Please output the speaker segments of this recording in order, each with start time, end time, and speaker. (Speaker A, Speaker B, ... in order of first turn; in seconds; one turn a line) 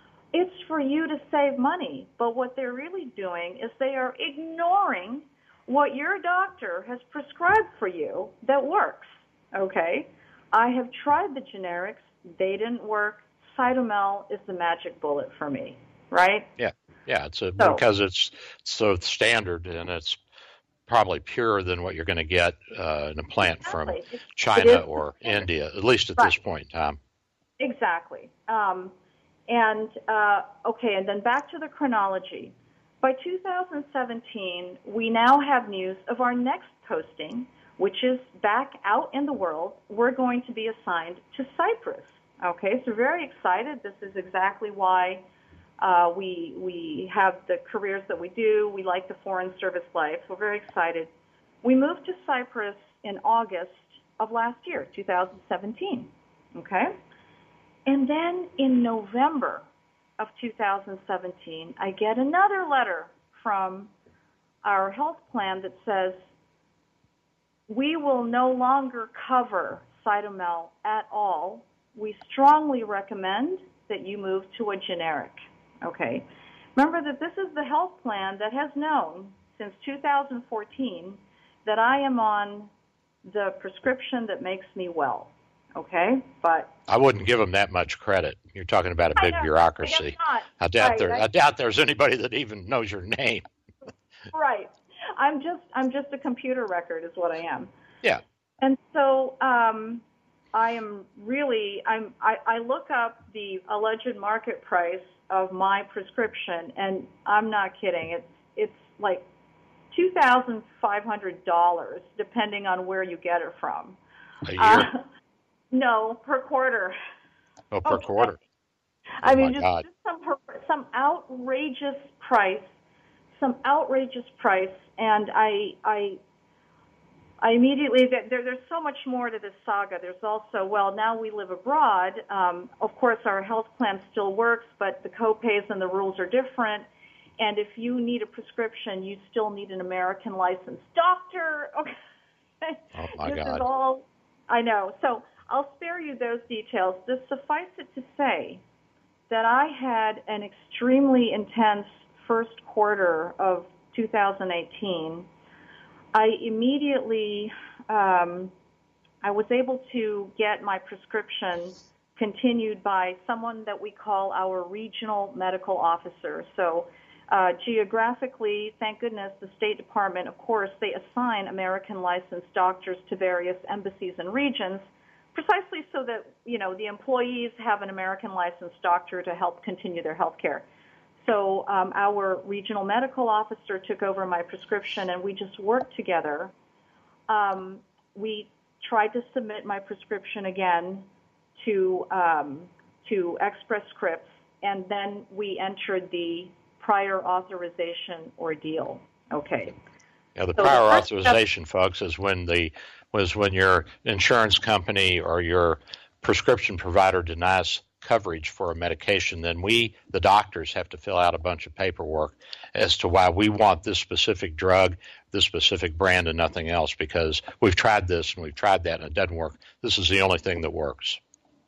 Speaker A: 0.3-16.5
Speaker B: 16.6-20.2
Speaker B: 20.9-27.0
Speaker A: 23.4-25.5
Speaker A: 27.6-28.9
Speaker A: 29.5-45.2
Speaker A: 45.8-51.1
Speaker A: 51.6-56.9
Speaker A: 57.9-59.6
Speaker A: 60.2-63.9
Speaker A: 64.6-66.2
Speaker A: 67.7-76.2
Speaker A: 76.8-82.7
Speaker A: 83.2-86.7
Speaker B: 86.9-93.4
Speaker A: 89.2-91.2
Speaker A: 94.3-97.7
Speaker A: 98.6-100.0
Speaker A: 100.5-109.2
Speaker A: 109.9-114.0
Speaker B: 114.4-114.9
Speaker A: 114.6-115.0
Speaker A: 115.7-116.9
Speaker B: 117.7-118.4
Speaker A: 117.8-118.4
Speaker A: 119.2-122.7
Speaker B: 119.2-119.8
Speaker A: 123.3-126.2
Speaker A: 127.4-136.9
Speaker A: 137.4-141.9
Speaker A: 142.6-148.6
Speaker B: 142.9-143.6
Speaker A: 149.3-155.3
Speaker A: 156.1-158.5
Speaker A: 159.2-180.7
Speaker A: 181.2-186.5
Speaker A: 187.3-191.1
Speaker A: 191.6-199.7
Speaker B: 200.3-221.2
Speaker A: 200.6-201.4